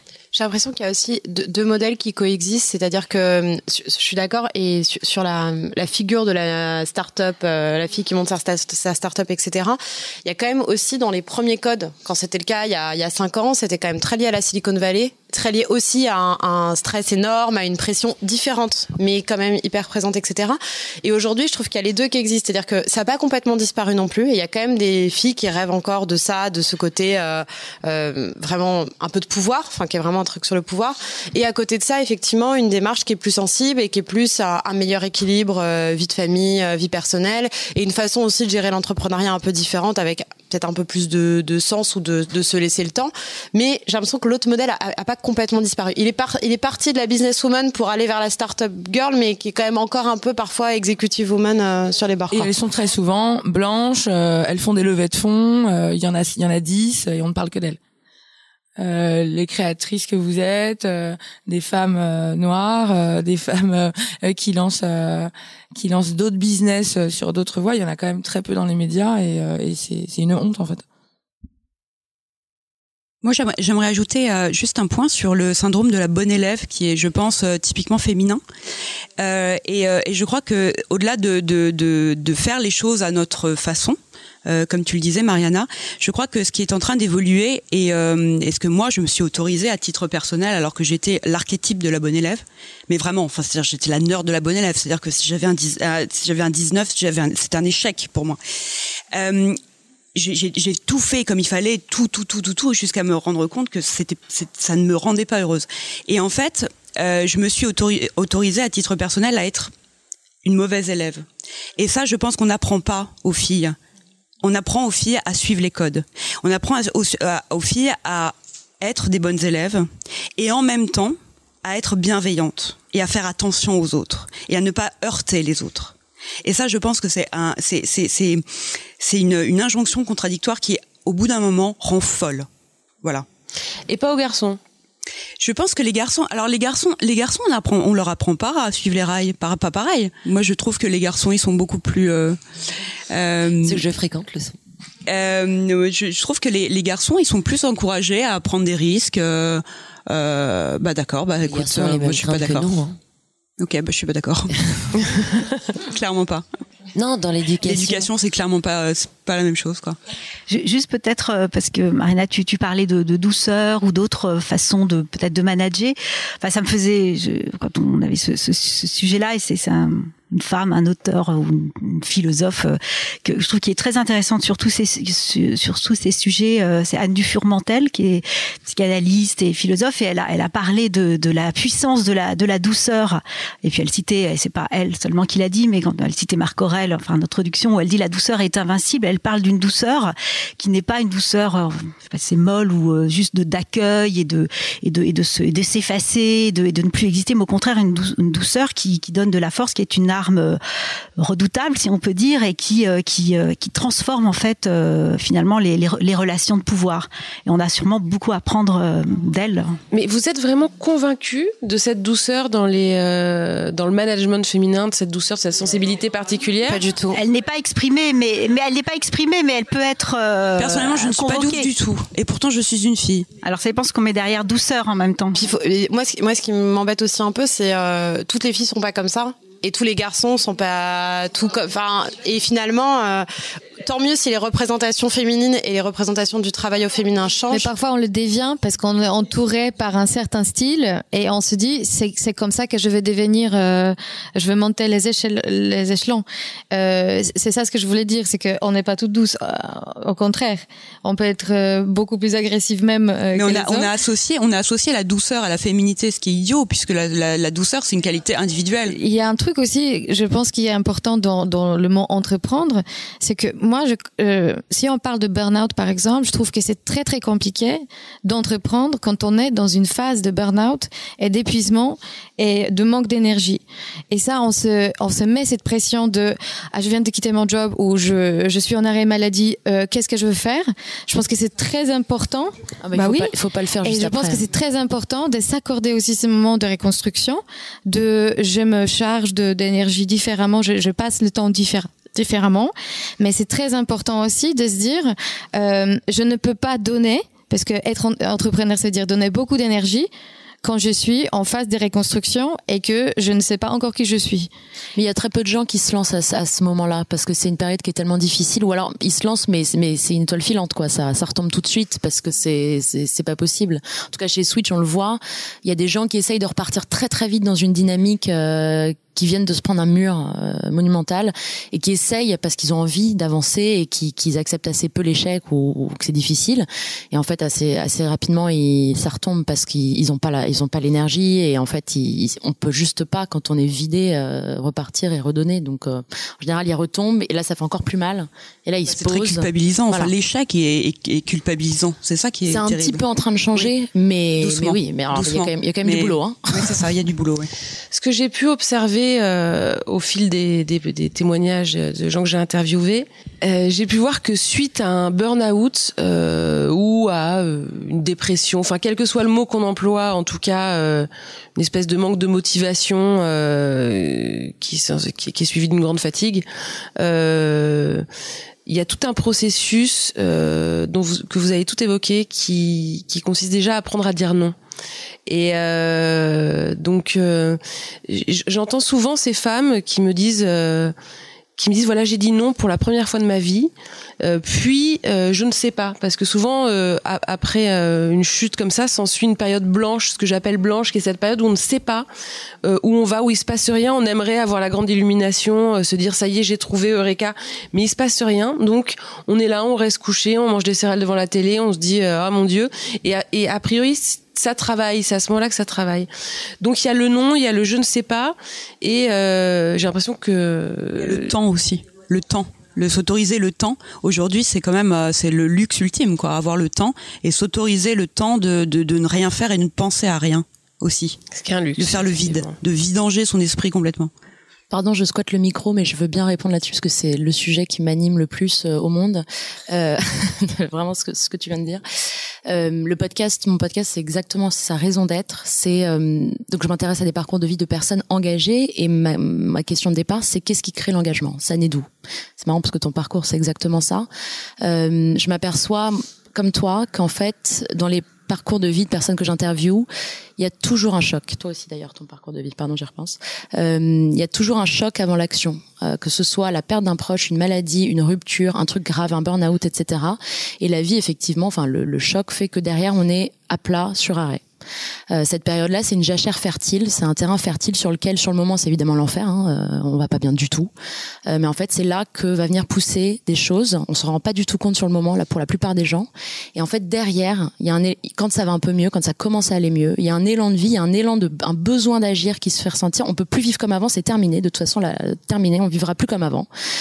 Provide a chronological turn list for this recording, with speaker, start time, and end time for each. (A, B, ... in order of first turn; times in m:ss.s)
0:00.3-0:52.5 A
0:52.3-0:57.8 B
0:58.8-1:10.8 B
1:13.2-1:18.4 C
1:19.2-1:38.4 C
1:39.1-1:39.6 C
1:40.2-1:49.7 C
1:50.4-1:51.3 C
1:51.8-1:53.8 C
1:54.4-2:08.4 C
2:09.0-2:12.5 C
2:13.9-2:14.6 D
2:15.4-2:22.4 C
2:23.1-2:23.8 C
2:23.6-2:24.6 E
2:25.1-2:32.7 C
2:31.4-2:33.0 E
2:33.6-2:36.4 C
2:37.0-2:38.1 E
2:37.6-2:40.0 C
2:40.5-3:20.6 F
3:21.2-3:29.8 F
3:29.9-3:36.9 D
3:36.7-3:37.1 A
3:37.1-3:41.7 F
3:40.6-3:43.3 C
3:43.4-3:45.4 F
3:45.4-3:53.3 A
3:53.8-3:57.7 A
3:57.5-4:13.9 G
4:13.4-4:18.9 C
4:18.9-4:43.3 G
4:42.8-4:44.4 H
4:43.8-5:00.1 G
5:00.6-5:04.5 G
5:05.0-5:40.1 H
5:38.9-5:43.0 C
5:42.5-5:46.8 H
5:44.4-5:47.5 C
5:47.9-6:06.5 D
6:07.0-6:08.1 D
6:08.7-6:14.6 D
6:15.3-6:21.0 D
6:21.6-6:32.1 D
6:32.6-6:46.1 D
6:46.6-6:51.3 D
6:51.0-7:01.2 C
7:01.3-7:02.5 D
7:01.8-7:04.1 C
7:04.7-7:11.8 H
7:12.5-7:24.1 H
7:24.6-7:44.4 H
7:45.1-7:50.7 H
7:51.3-8:06.5 H